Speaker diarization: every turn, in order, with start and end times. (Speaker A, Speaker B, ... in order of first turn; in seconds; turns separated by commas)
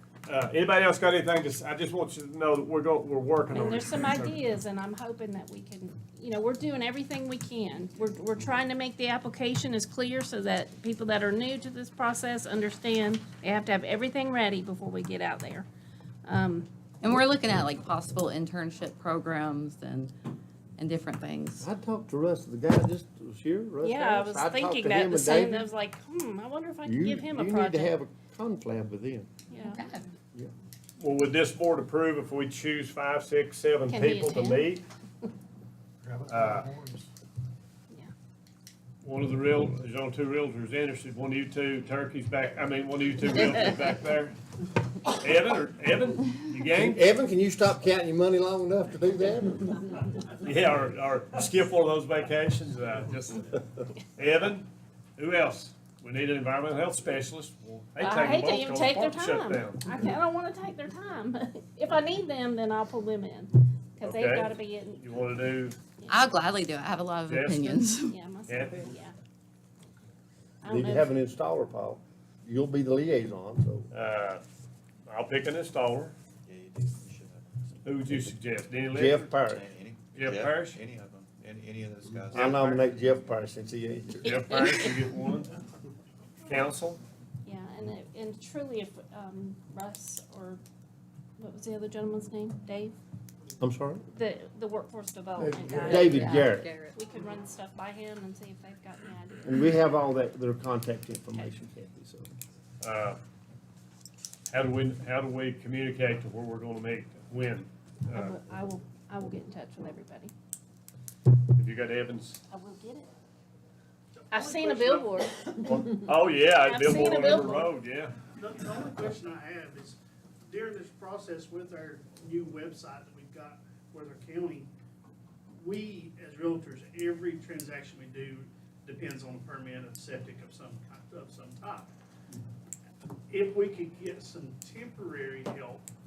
Speaker A: 0.3-4.3, Speaker B: 3.5-15.7, Speaker B: 16.3-16.7, Speaker C: 17.0-20.1, Speaker C: 20.8-21.7, Speaker D: 21.6-25.7, Speaker B: 23.8-27.9, Speaker D: 26.9-29.3, Speaker B: 29.5-29.8, Speaker C: 29.6-30.0, Speaker A: 31.0-34.8, Speaker B: 33.9-34.7, Speaker A: 36.3-36.7, Speaker A: 39.0-44.4, Speaker A: 45.1-47.0, Speaker D: 46.7-49.8, Speaker A: 50.4-59.9, Speaker B: 58.0-65.3, Speaker A: 64.0-65.8, Speaker B: 66.0-66.3, Speaker C: 66.1-68.2, Speaker A: 67.3-67.8, Speaker B: 68.1-69.2, Speaker A: 68.5-68.9, Speaker B: 70.6-71.1, Speaker D: 70.7-73.9, Speaker A: 73.9-74.4, Speaker A: 75.1-76.2, Speaker E: 76.5-77.2, Speaker F: 76.5-77.7, Speaker A: 77.8-79.3, Speaker D: 78.9-79.7, Speaker E: 79.5-82.6, Speaker F: 79.7-81.5, Speaker A: 80.1-80.8, Speaker F: 82.1-82.4, Speaker A: 82.3-82.8, Speaker D: 82.3-84.5, Speaker A: 84.2-85.5, Speaker A: 86.5-87.0, Speaker B: 87.5-90.6, Speaker B: 91.4-93.0, Speaker D: 93.6-94.0, Speaker B: 94.1-99.8, Speaker C: 95.8-96.9, Speaker D: 95.8-96.7, Speaker D: 99.5-102.3, Speaker A: 102.8-103.2, Speaker A: 104.5-108.4, Speaker B: 108.1-110.3, Speaker A: 111.5-112.4, Speaker B: 112.5-113.1, Speaker B: 114.3-115.9, Speaker A: 115.6-118.2, Speaker B: 116.7-117.8, Speaker E: 119.4-120.0, Speaker E: 120.5-123.6, Speaker E: 124.1-124.7, Speaker E: 125.6-128.5, Speaker E: 129.4-131.9, Speaker E: 133.5-135.8